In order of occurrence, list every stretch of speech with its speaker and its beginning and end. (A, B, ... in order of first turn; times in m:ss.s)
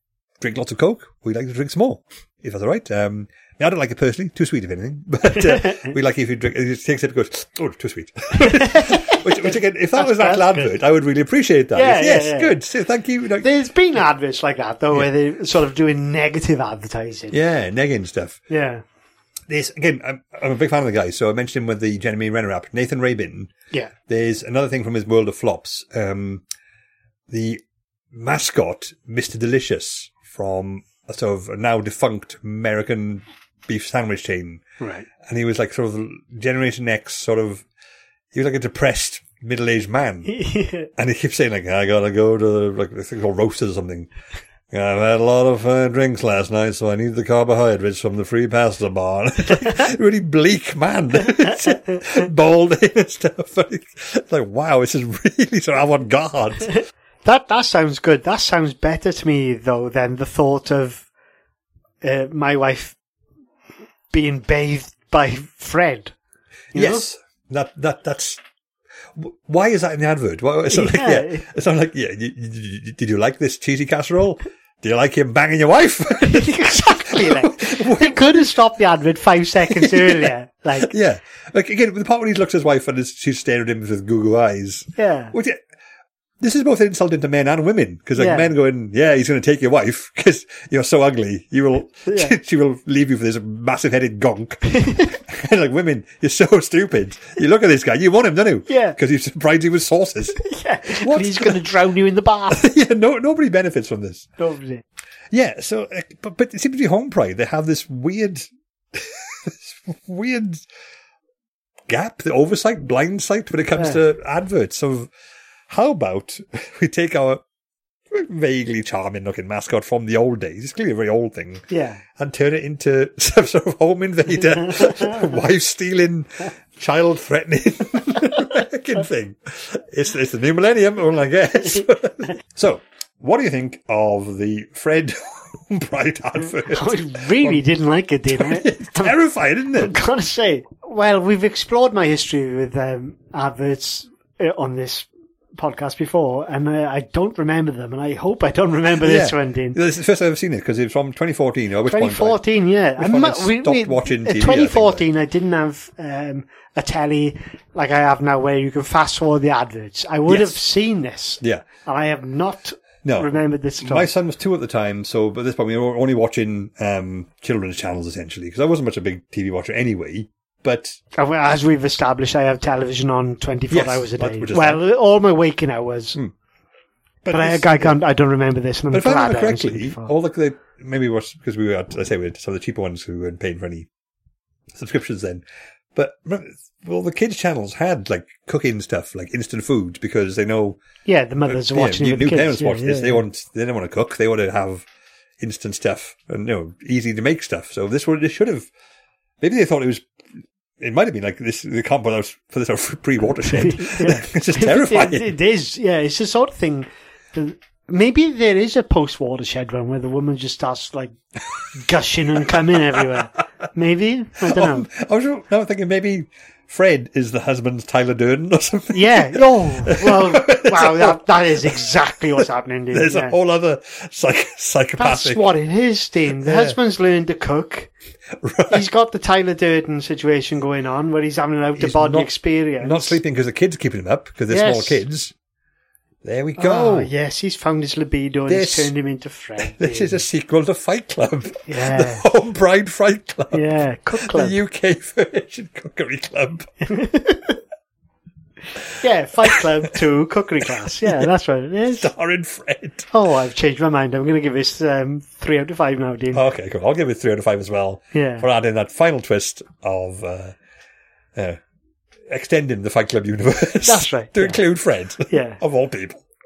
0:00.4-0:13.5 A
0:05.5-0:05.9 B
0:08.4-0:10.7 B
0:11.7-0:12.5 B
0:13.4-0:17.4 B
0:17.3-0:18.4 A
0:18.5-0:18.8 B
0:19.5-0:23.5 A
0:24.1-0:26.4 A
0:27.3-0:34.6 A
0:34.8-0:35.1 B
0:35.2-0:37.6 A
0:38.3-0:40.4 A
0:40.3-0:40.9 B
0:41.0-0:44.1 A
0:44.7-0:56.7 A
0:57.2-1:01.0 B
1:02.0-1:03.0 B
1:04.1-1:06.2 B
1:06.7-1:07.0 B
1:06.7-1:08.4 A
1:09.2-1:18.5 A
1:10.7-1:11.4 B
1:16.2-1:20.9 B
1:19.7-1:25.6 A
1:25.0-1:25.3 B
1:26.4-1:40.4 A
1:28.2-1:28.5 B
1:32.1-1:32.3 B
1:34.8-1:35.1 B
1:38.7-1:39.0 B
1:40.4-1:42.7 B
1:41.0-1:41.6 A
1:42.5-1:44.3 A
1:44.4-1:44.8 B
1:45.3-1:50.6 A
1:51.9-1:55.1 A
1:55.7-1:57.4 A
1:58.1-2:17.6 A
2:01.7-2:02.0 B
2:04.8-2:05.1 B
2:16.5-2:19.2 B
2:18.3-2:19.9 A
2:19.8-2:29.8 B
2:29.0-2:32.4 A
2:31.9-2:44.1 B
2:33.0-2:35.1 A
2:40.3-2:40.6 A
2:43.0-2:51.0 A
2:51.1-2:56.2 B
2:53.7-2:54.8 A
2:57.2-2:58.0 A
2:57.3-3:00.1 B
2:58.9-3:03.9 A
3:04.7-3:05.4 A
3:06.0-3:10.8 A
3:11.1-3:13.2 B
3:11.5-3:14.8 A
3:15.4-3:18.7 A
3:19.4-3:20.1 A
3:20.8-3:25.3 A
3:23.4-3:31.2 B
3:31.7-3:34.9 B
3:34.4-3:41.7 A
3:38.9-3:43.4 B
3:42.9-3:45.4 A
3:45.0-3:47.9 B
3:46.4-3:46.8 A
3:48.4-3:48.8 A
3:48.7-3:53.2 B
3:51.8-3:55.3 A
3:54.5-3:55.0 B
3:56.2-3:57.1 A
3:56.6-4:00.2 B
3:58.5-3:58.9 A
3:59.6-4:03.7 A
4:01.7-4:02.2 B
4:03.5-4:04.6 B
4:04.3-4:06.7 A
4:06.8-4:07.6 B
4:09.0-4:12.1 B
4:11.0-4:11.3 A
4:12.0-4:13.1 A
4:13.1-4:16.4 B
4:16.3-4:20.6 A
4:18.1-4:18.5 B
4:21.4-4:21.6 A
4:22.3-4:26.2 A
4:23.8-4:24.6 B
4:25.3-4:25.6 B